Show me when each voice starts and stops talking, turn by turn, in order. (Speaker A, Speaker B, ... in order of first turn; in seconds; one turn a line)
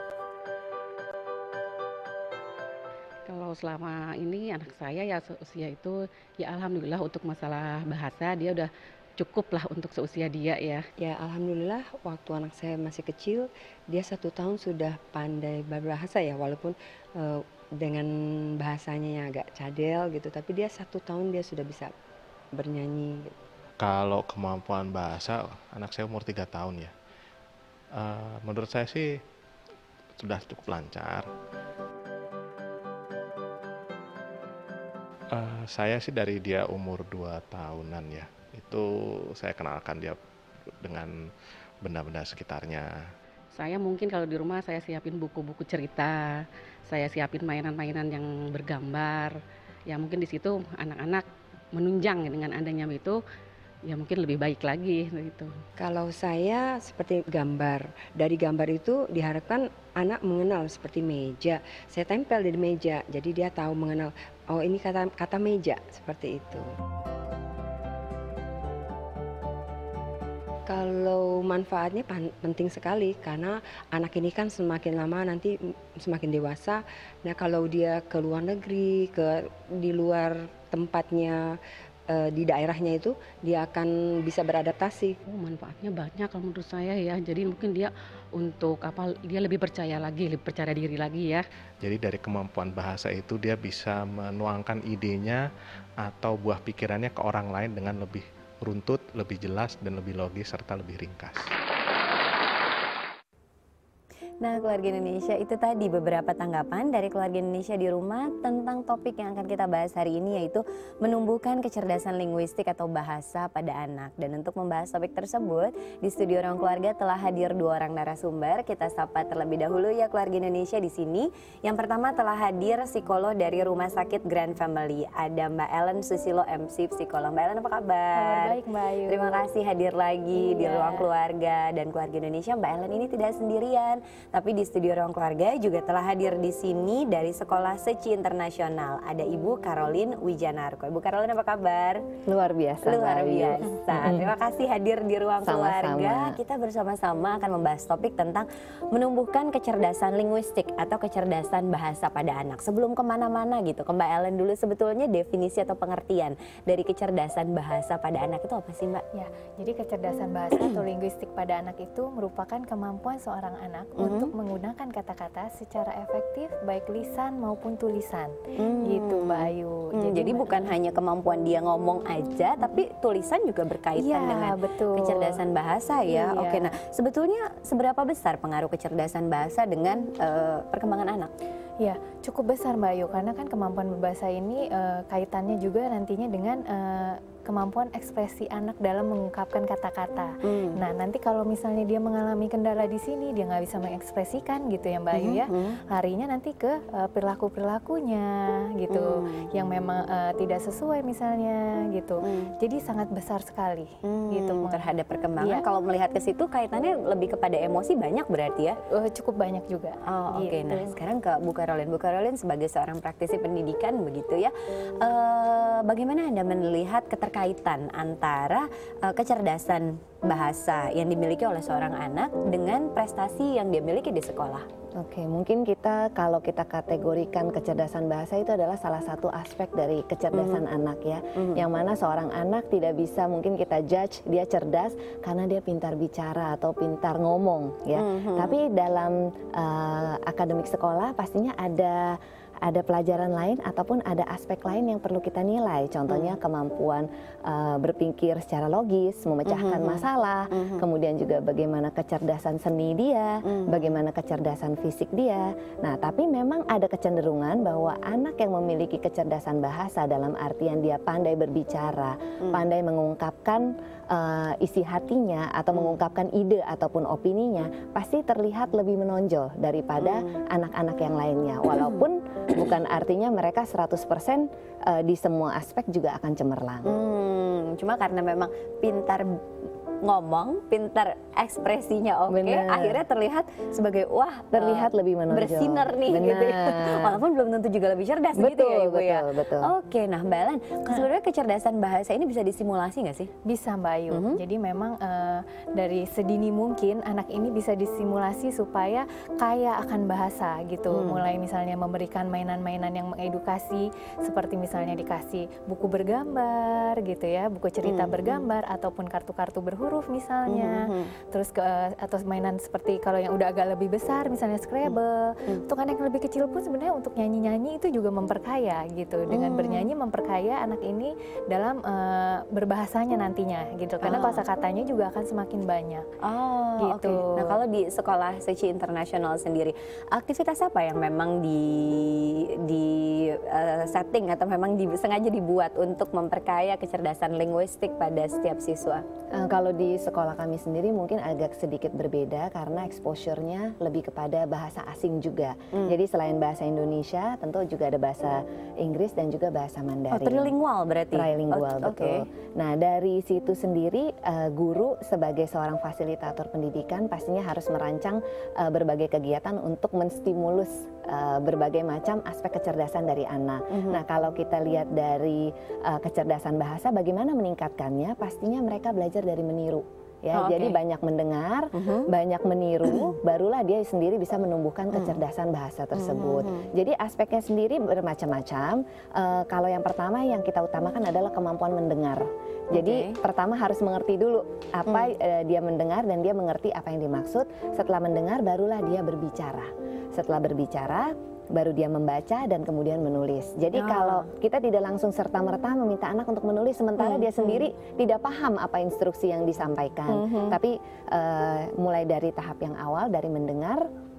Speaker A: 3.3-10.8
Speaker B: 11.0-18.1
Speaker B: 18.6-21.9
Speaker B: 22.5-23.3
Speaker C: 23.8-26.9
Speaker C: 28.0-29.1
Speaker C: 30.2-31.3
Speaker C: 35.3-38.8
Speaker C: 39.4-40.2
Speaker C: 40.8-41.1
Speaker C: 41.8-42.9
Speaker A: 43.5-49.4
Speaker A: 49.9-53.2
Speaker A: 53.9-55.5
Speaker B: 55.8-66.6
Speaker B: 70.7-81.4
Speaker B: 82.1-85.1
Speaker A: 85.3-91.4
Speaker C: 91.8-95.4
Speaker C: 96.0-101.5
Speaker D: 104.4-142.1
Speaker E: 128.1-129.4
Speaker E: 130.3-131.1
Speaker F: 142.2-144.3
Speaker D: 142.8-159.0
Speaker F: 145.4-146.4
Speaker E: 159.1-170.7
Speaker D: 164.0-164.3
Speaker D: 168.5-181.3
Speaker E: 173.9-175.4
Speaker E: 176.1-176.7
Speaker E: 181.8-205.7
Speaker D: 190.4-190.8
Speaker D: 195.1-195.8
Speaker D: 198.9-199.5
Speaker D: 202.2-202.5
Speaker D: 204.0-208.8
Speaker E: 208.9-210.9
Speaker D: 210.1-224.7
Speaker F: 225.0-276.9
Speaker D: 230.3-230.6
Speaker D: 231.3-231.6
Speaker D: 237.9-238.6
Speaker D: 246.1-246.4
Speaker D: 249.4-250.8
Speaker D: 253.4-254.0
Speaker D: 270.0-270.3
Speaker D: 276.8-279.3
Speaker D: 280.0-293.3
Speaker F: 282.3-283.0
Speaker F: 284.5-287.2
Speaker F: 288.4-289.7
Speaker E: 293.4-326.0
Speaker D: 294.1-294.4
Speaker D: 300.9-301.2
Speaker D: 307.8-308.4
Speaker D: 310.5-311.1
Speaker D: 319.3-319.9
Speaker D: 324.0-324.4
Speaker D: 326.2-339.0
Speaker E: 326.8-327.6
Speaker F: 339.4-350.5
Speaker D: 350.1-352.3
Speaker F: 351.1-403.9
Speaker D: 363.7-364.0
Speaker D: 370.3-370.8
Speaker D: 371.7-372.1
Speaker D: 372.8-373.1
Speaker D: 374.9-375.2
Speaker D: 375.9-376.6
Speaker D: 382.7-383.2
Speaker D: 393.7-394.3
Speaker D: 397.0-397.6
Speaker D: 400.1-400.6